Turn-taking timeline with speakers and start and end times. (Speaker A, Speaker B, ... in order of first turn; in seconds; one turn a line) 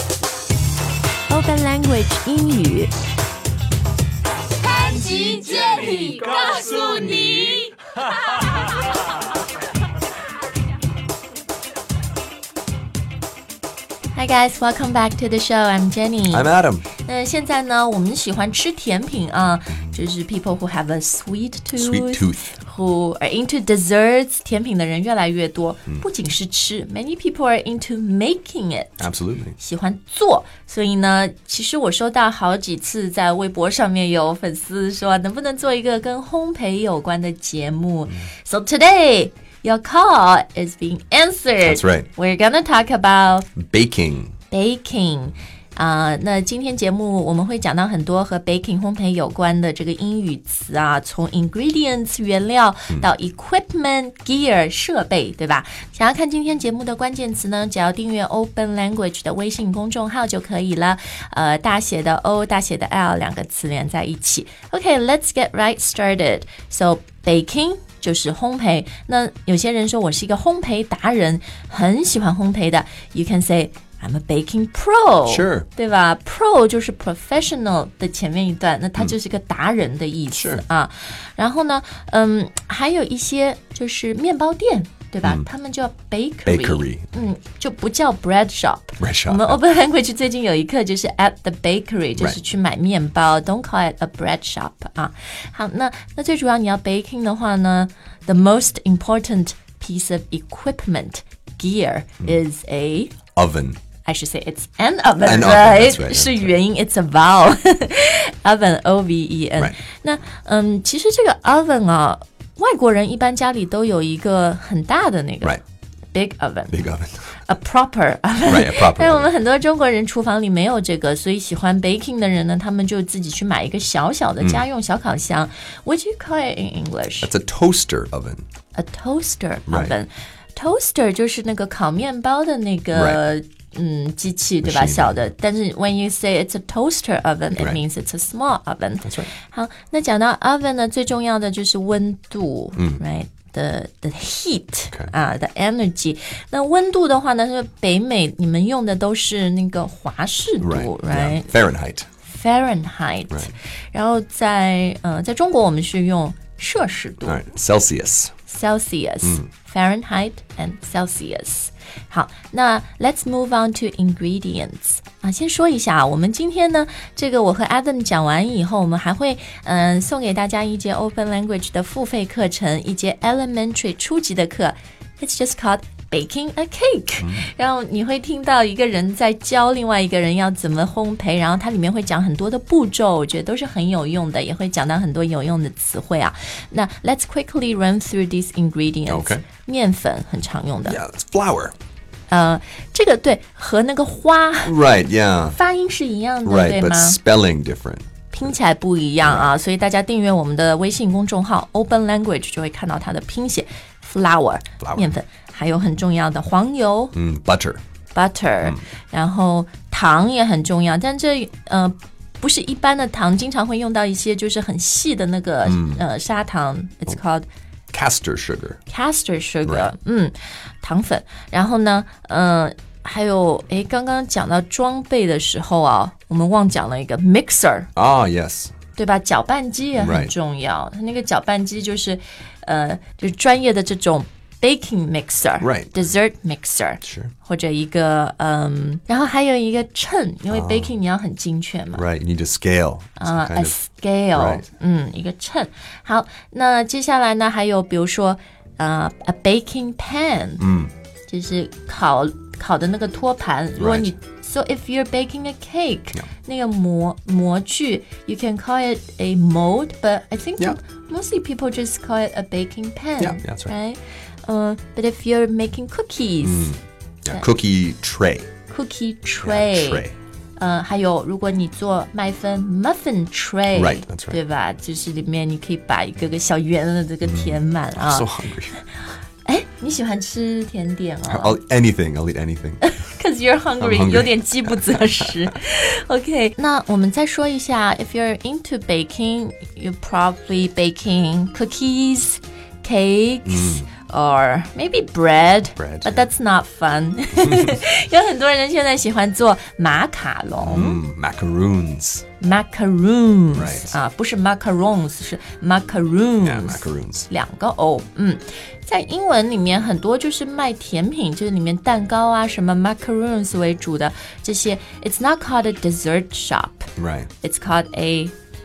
Speaker A: 1.3-2.9
Speaker A: 4.8-6.4
Speaker B: 5.6-7.6
Speaker A: 14.1-29.0
Speaker C: 16.3-16.9
Speaker C: 21.8-22.5
Speaker C: 29.0-29.6
Speaker A: 29.6-43.5
Speaker C: 41.6-42.1
Speaker C: 43.6-44.3
Speaker A: 44.5-103.2
Speaker C: 75.2-75.7
Speaker C: 80.3-80.6
Speaker C: 86.5-87.1
Speaker C: 89.0-89.6
Speaker C: 103.3-103.8
Speaker A: 104.0-115.5
Speaker C: 105.2-106.5
Speaker A: 116.1-116.8
Speaker C: 116.7-117.3
Speaker A: 117.5-127.3
Speaker C: 118.5-119.3
Speaker C: 127.2-128.4
Speaker A: 128.7-151.5
Speaker C: 129.7-129.9
Speaker C: 132.9-133.2
Speaker C: 134.6-135.2
Speaker C: 139.0-139.3
Speaker C: 150.6-152.1
Speaker A: 152.2-157.4
Speaker C: 157.2-158.3
Speaker A: 158.5-191.0
Speaker C: 177.2-177.5
Speaker C: 189.1-189.4
Speaker C: 190.8-191.7
Speaker A: 192.3-194.7
Speaker C: 194.6-195.6
Speaker A: 195.5-197.2
Speaker C: 196.4-198.1
Speaker A: 198.3-207.1
Speaker C: 199.2-199.5
Speaker C: 204.8-205.1
Speaker C: 207.1-207.8
Speaker A: 208.1-217.4
Speaker C: 215.6-216.0
Speaker C: 217.9-218.8
Speaker A: 218.9-227.9
Speaker C: 219.6-219.9
Speaker C: 227.9-228.7
Speaker A: 228.9-242.1
Speaker C: 230.0-230.3
Speaker C: 235.6-236.0
Speaker C: 237.0-237.3
Speaker C: 240.5-240.9
Speaker C: 241.9-243.7
Speaker A: 243.2-250.6
Speaker C: 244.3-244.7
Speaker C: 250.6-250.9
Speaker A: 251.3-266.7
Speaker C: 253.8-254.1
Speaker C: 263.2-263.7
Speaker C: 266.4-268.5
Speaker A: 268.7-270.1
Speaker C: 269.4-270.1
Speaker A: 270.6-278.3
Speaker C: 273.7-274.4
Speaker C: 277.2-278.8
Speaker A: 279.4-281.6
Speaker C: 281.3-282.8
Speaker A: 282.8-301.0
Speaker C: 283.8-285.1
Speaker C: 293.4-293.9
Speaker C: 295.8-296.2
Speaker C: 300.6-302.2
Speaker A: 302.4-316.9
Speaker C: 303.5-304.0
Speaker C: 306.4-307.3
Speaker C: 317.0-317.3
Speaker A: 317.4-318.3